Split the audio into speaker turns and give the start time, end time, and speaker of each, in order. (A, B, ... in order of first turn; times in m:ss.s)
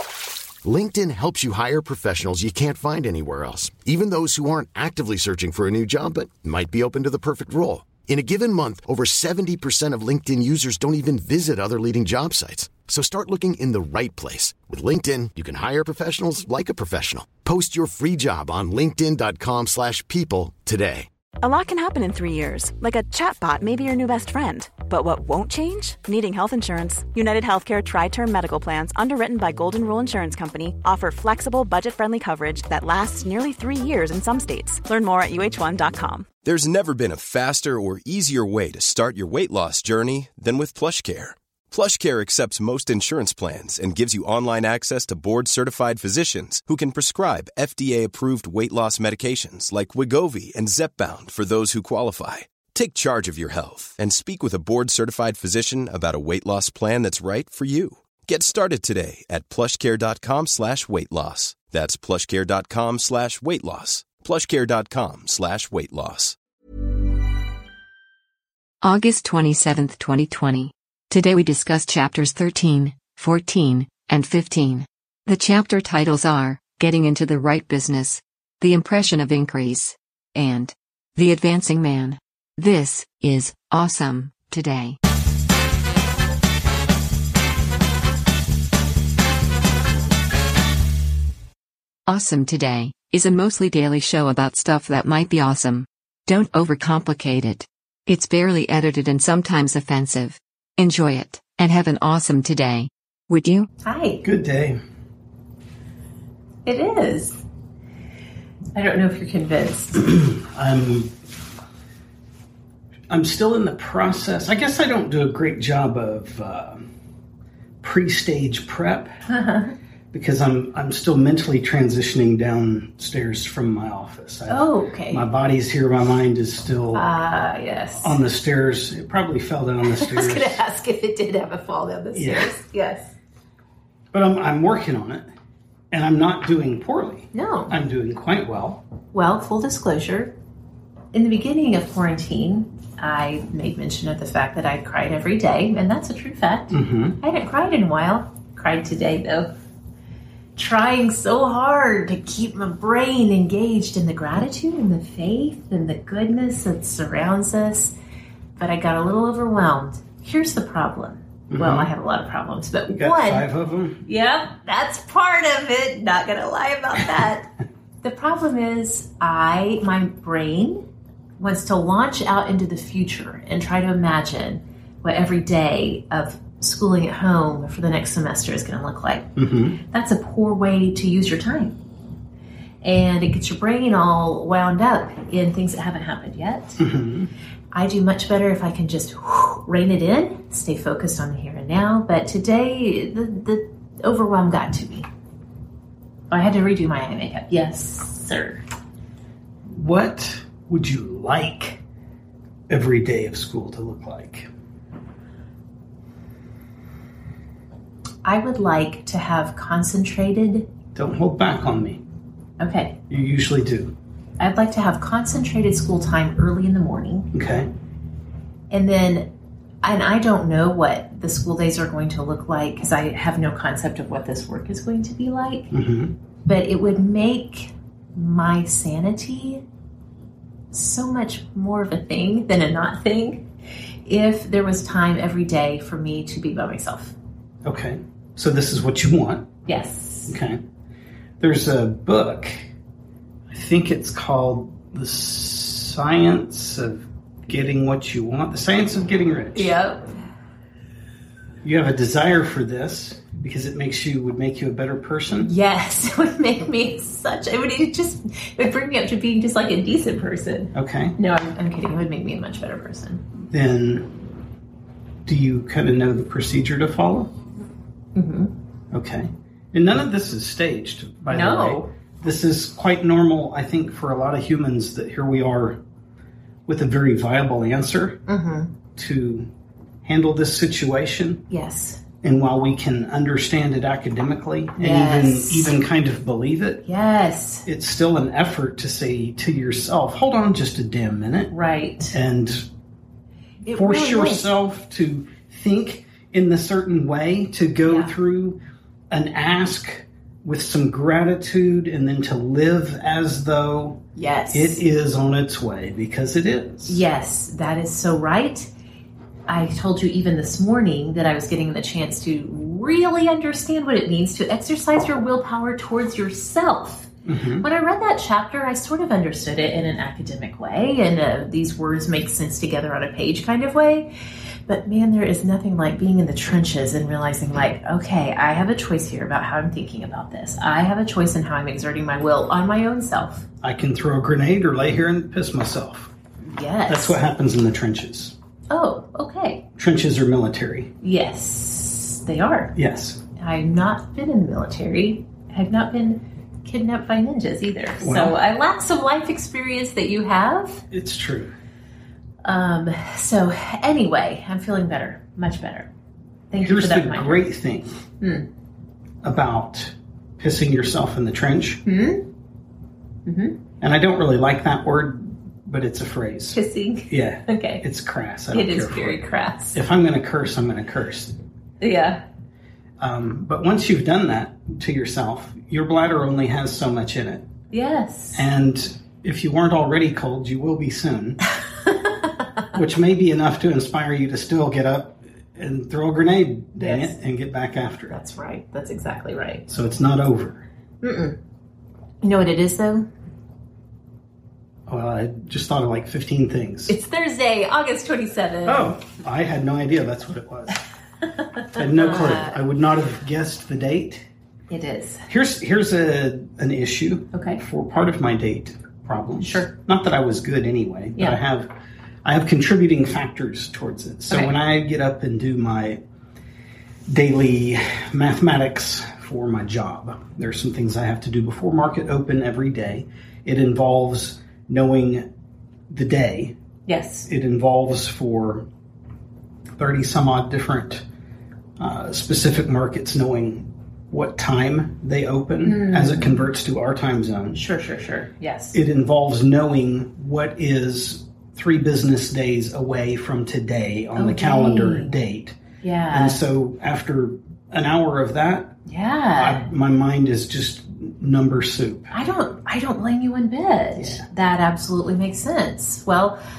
0:00.6-0:21.1 A
0:21.4-0:36.3 B
0:36.4-1:06.4 C
1:08.8-1:25.0 D
1:32.1-1:43.7 D
1:43.8-1:44.2 E
1:44.2-1:44.8 F
1:46.6-1:47.4 E
1:48.7-1:50.0 E
1:50.0-1:51.1 F
1:53.1-1:56.8 F
1:57.8-1:59.1 F
1:59.3-1:59.7 E
2:00.1-2:07.1 F
2:04.5-2:05.3 E
2:06.9-2:08.2 E
2:08.0-2:10.6 F
2:09.8-2:13.1 E
2:12.1-2:12.6 F
2:14.1-2:15.3 F
2:15.9-2:18.8 F
2:17.3-2:17.8 E
2:19.1-2:20.3 E
2:21.1-2:29.5 E
2:26.7-2:27.2 F
2:30.6-2:38.0 E
2:38.6-2:43.5 E
2:41.5-2:41.9 F
2:42.9-2:44.0 F
2:44.0-2:47.5 E
2:48.0-2:50.8 E
2:51.4-2:59.3 E
2:59.4-2:59.8 F
2:59.8-3:01.8 E
3:02.8-3:06.8 E
3:06.8-3:07.3 F
3:07.7-3:15.1 E
3:16.3-3:18.6 E
3:19.7-3:21.8 F
3:22.7-3:24.5 F
3:28.2-3:30.7 E
3:30.9-3:32.0 F
3:32.6-3:33.0 E
3:33.1-3:33.9 F
3:34.4-3:37.3 E
3:37.3-3:37.7 F
3:38.7-3:39.3 E
3:39.8-3:45.7 E
3:45.7-3:46.1 F
3:46.4-3:49.6 E
3:50.7-3:53.5 E
3:54.0-3:57.1 E
3:57.6-3:59.5 F
3:59.7-4:00.4 E
4:00.3-4:00.6 F
4:01.4-4:02.7 F
4:03.5-4:09.7 F
4:09.5-4:10.1 E
4:11.6-4:15.5 F
4:15.4-4:23.2 E
4:20.7-4:21.2 F
4:23.4-4:24.1 F
4:25.2-4:27.3 F
4:28.1-4:28.5 E
4:28.9-4:35.8 F
4:31.3-4:31.9 E
4:36.6-4:38.2 F
4:38.3-4:38.7 E
4:39.0-4:39.5 F
4:40.0-4:41.4 F
4:41.5-4:42.0 E
4:42.2-4:46.8 F
4:44.8-4:45.8 E
4:46.8-4:47.6 E
4:47.6-4:51.5 F
4:51.5-4:52.2 E
4:52.1-4:52.7 F
4:53.6-4:54.5 E
4:53.7-4:58.6 F
4:57.8-4:58.1 E
4:59.1-5:07.0 F
5:04.1-5:04.8 E
5:06.8-5:08.7 E
5:09.5-5:17.1 E
5:17.2-5:17.6 F
5:17.6-5:24.1 E
5:24.7-5:33.5 E
5:33.6-5:36.1 F
5:36.4-5:37.2 E
5:36.9-5:38.4 F
5:38.7-5:39.6 E
5:39.8-5:40.9 F
5:41.0-5:42.7 E
5:42.8-5:43.2 F
5:43.4-5:50.8 E
5:48.0-5:48.4 F
5:50.9-5:51.5 F
5:52.4-5:55.9 E
5:56.5-5:57.4 E
5:56.6-5:58.0 F
5:58.2-5:58.5 E
5:59.2-6:01.8 F
6:01.8-6:02.3 E
6:03.2-6:03.6 E
6:03.8-6:06.6 F
6:06.5-6:07.8 E
6:07.1-6:11.3 F
6:08.5-6:09.8 E
6:11.8-6:12.2 E
6:13.0-6:17.4 F
6:17.7-6:18.5 E
6:18.3-6:21.4 F
6:22.7-6:28.2 F
6:26.8-6:27.1 E
6:28.1-6:29.7 E
6:29.7-6:30.6 F
6:31.0-6:31.4 E
6:32.2-6:33.1 E
6:34.9-6:36.9 F
6:36.9-6:39.0 E
6:38.6-6:40.8 F
6:41.7-6:42.6 E
6:41.8-6:44.2 F
6:44.7-6:45.2 E
6:45.3-6:51.7 F
6:47.3-6:47.6 E
6:49.4-6:49.7 E
6:52.2-6:56.0 F
6:57.1-7:05.3 F
7:05.9-7:06.5 F
7:06.9-7:07.3 E
7:07.2-7:08.7 F
7:09.8-7:11.0 F
7:11.8-7:17.6 F
7:15.6-7:16.4 E
7:17.5-7:18.8 E
7:18.7-7:25.6 F
7:24.2-7:25.2 E
7:25.8-7:26.4 E
7:26.1-7:28.8 F
7:28.8-7:29.7 E
7:29.4-7:32.1 F
7:32.1-7:36.4 E
7:34.0-7:34.2 F